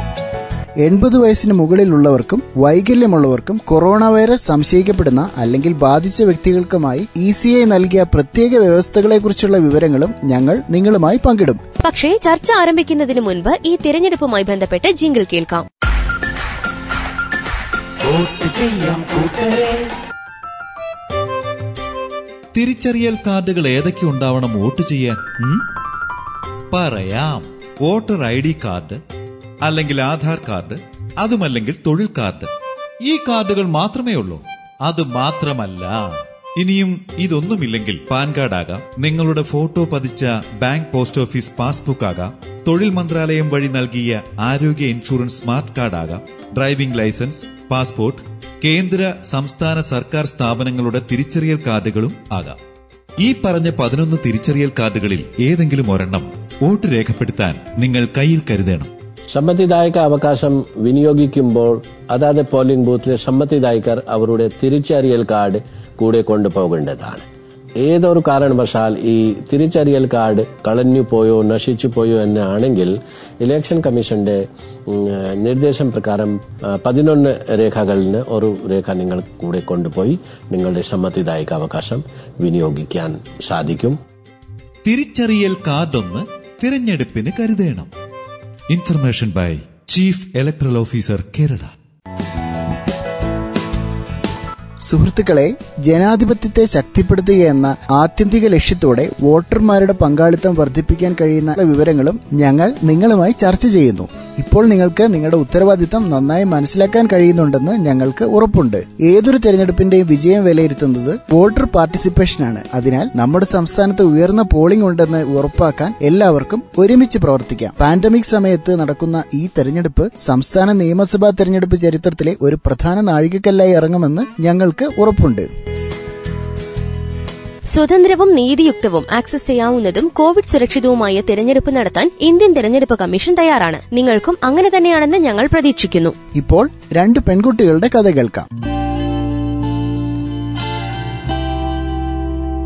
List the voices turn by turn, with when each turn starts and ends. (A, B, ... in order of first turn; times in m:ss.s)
0:00.8-0:11.6 A
0:11.8-0:15.6 B
0:22.5-0:25.6 C
0:26.7-0:29.0 C
0:29.6-0:32.5 C
0:33.1-0:36.0 C
0:36.6-0:52.6 C
0:53.2-0:58.9 C
0:59.3-1:07.2 D
1:07.8-1:24.0 D
1:24.8-1:27.9 C
1:28.7-1:31.7 C
1:34.9-2:05.4 A
2:07.7-2:16.1 B
2:16.4-2:18.4 A